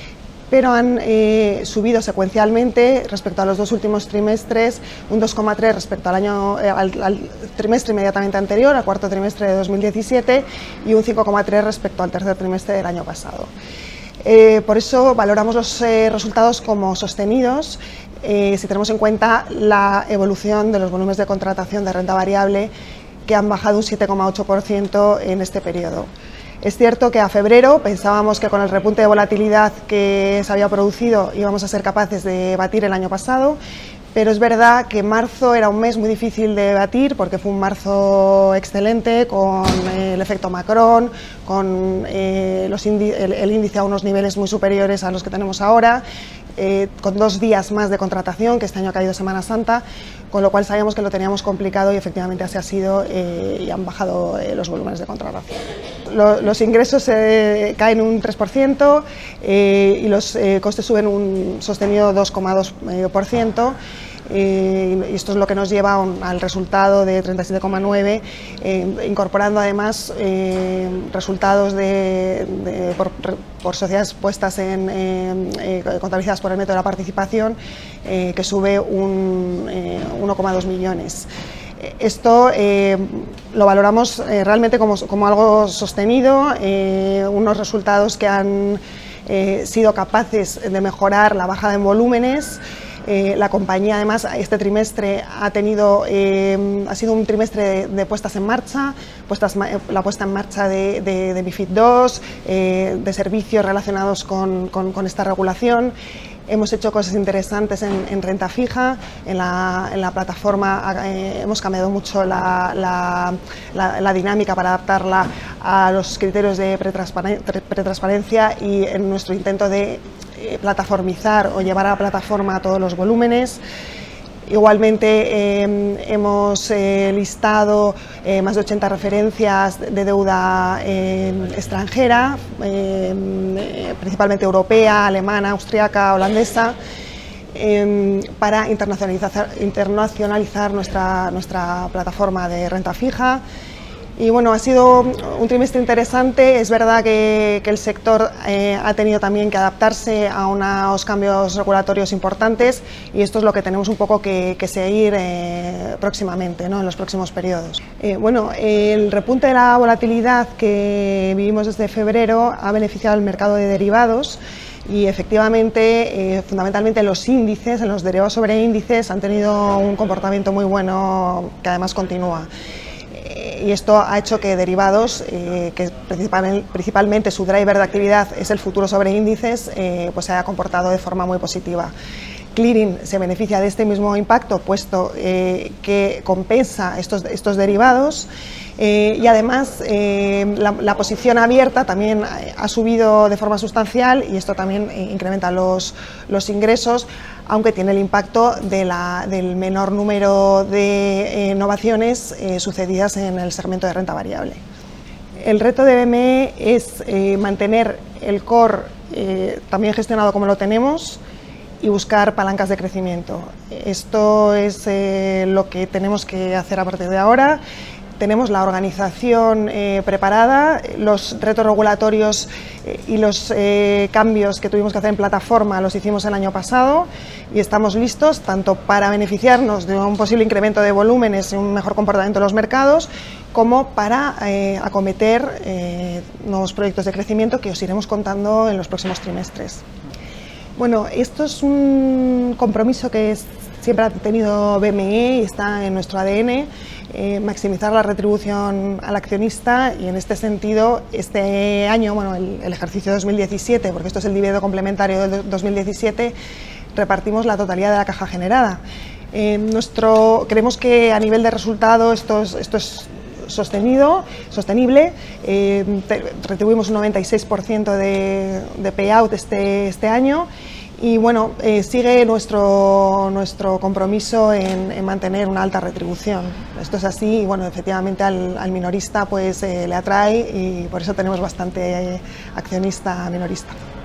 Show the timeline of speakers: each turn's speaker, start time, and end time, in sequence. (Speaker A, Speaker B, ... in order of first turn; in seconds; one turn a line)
Speaker A: 0.5-13.5
Speaker A: 14.2-22.7
Speaker A: 23.2-26.1
Speaker A: 26.6-33.6
Speaker A: 34.1-46.0
Speaker A: 46.6-63.8
Speaker A: 64.3-81.3
Speaker A: 81.8-105.9
Speaker A: 106.5-123.6
Speaker A: 124.5-136.8
Speaker A: 137.5-143.4
Speaker A: 144.2-172.5
Speaker A: 173.1-181.9
Speaker A: 182.5-204.6
Speaker A: 205.4-211.2
Speaker A: 211.8-217.6
Speaker A: 218.2-239.8
Speaker A: 240.8-256.3
Speaker A: 256.9-258.8
Speaker A: 259.3-270.5
Speaker A: 271.0-283.8